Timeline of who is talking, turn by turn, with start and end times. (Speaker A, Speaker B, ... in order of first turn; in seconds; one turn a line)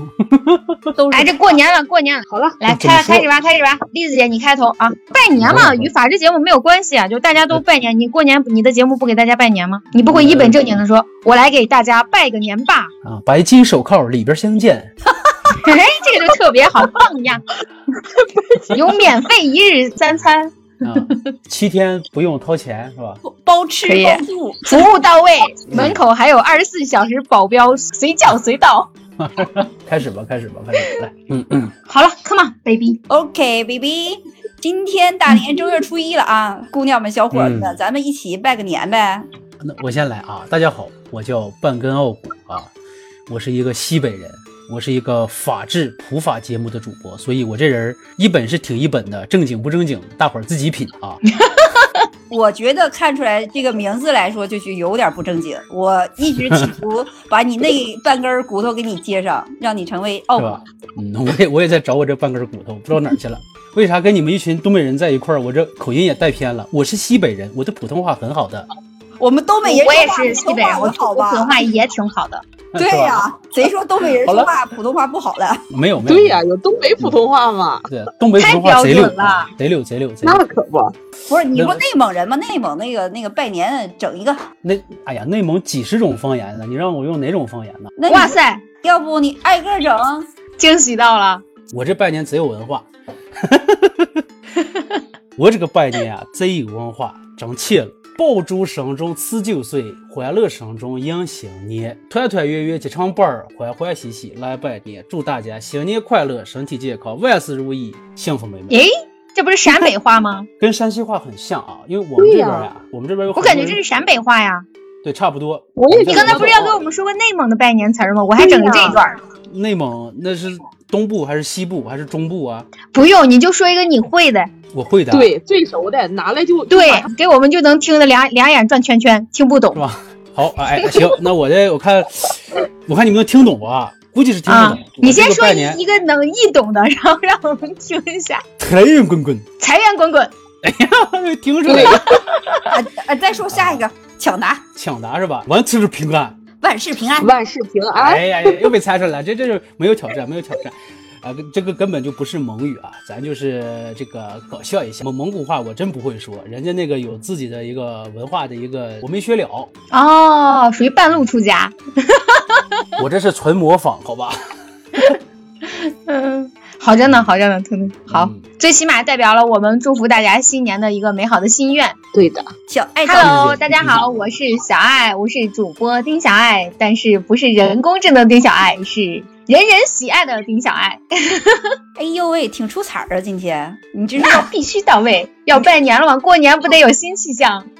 Speaker A: 0.3-1.3
Speaker B: 1.1-12.9
Speaker A: 2.6-3.3
Speaker A: 5.4-5.9
Speaker A: 10.0-10.7
Speaker A: 13.0-14.9
Speaker B: 15.5-17.4
Speaker B: 18.7-21.2
Speaker A: 20.8-23.2
Speaker C: 23.2-24.9
Speaker B: 23.8-28.9
Speaker A: 25.7-26.0
Speaker A: 29.2-31.7
Speaker B: 31.9-33.0
Speaker C: 33.1-39.3
Speaker A: 37.3-37.8
Speaker A: 39.6-42.7
Speaker A: 43.3-51.2
Speaker C: 52.3-60.6
Speaker A: 60.3-68.7
Speaker C: 69.2-71.5
Speaker B: 69.7-72.4
Speaker A: 72.7-73.2
Speaker C: 72.8-75.6
Speaker A: 74.2-74.5
Speaker A: 75.7-76.5
Speaker D: 76.1-77.9
Speaker A: 77.0-77.2
Speaker A: 77.9-80.5
Speaker B: 78.4-79.5
Speaker D: 80.2-80.9
Speaker C: 81.3-84.4
Speaker A: 81.5-81.8
Speaker A: 84.6-87.9
Speaker C: 88.0-90.2
Speaker B: 88.1-88.6
Speaker B: 90.6-91.4
Speaker A: 91.7-92.9
Speaker A: 93.5-94.2
Speaker A: 95.3-108.8
Speaker B: 108.7-110.5
Speaker A: 110.6-113.8
Speaker D: 112.2-112.5
Speaker B: 113.3-114.6
Speaker A: 115.0-116.8
Speaker D: 115.8-116.4
Speaker B: 116.0-119.2
Speaker D: 118.4-118.8
Speaker A: 119.5-122.7
Speaker B: 122.9-124.5
Speaker A: 124.7-125.3
Speaker D: 125.1-127.0
Speaker B: 126.7-129.8
Speaker A: 129.7-135.8
Speaker B: 134.5-138.4
Speaker A: 138.6-139.4
Speaker B: 139.6-140.3
Speaker A: 140.6-142.2
Speaker C: 142.7-144.6
Speaker A: 143.5-143.8
Speaker A: 144.8-146.3
Speaker C: 146.6-147.3
Speaker D: 147.2-148.2
Speaker A: 147.9-159.7
Speaker B: 159.9-162.8
Speaker A: 163.0-164.3
Speaker B: 166.1-172.0
Speaker A: 168.1-168.4
Speaker D: 172.2-172.4
Speaker C: 172.7-173.5
Speaker B: 173.0-181.6
Speaker A: 173.2-174.1
Speaker C: 182.0-184.5
Speaker B: 184.2-187.7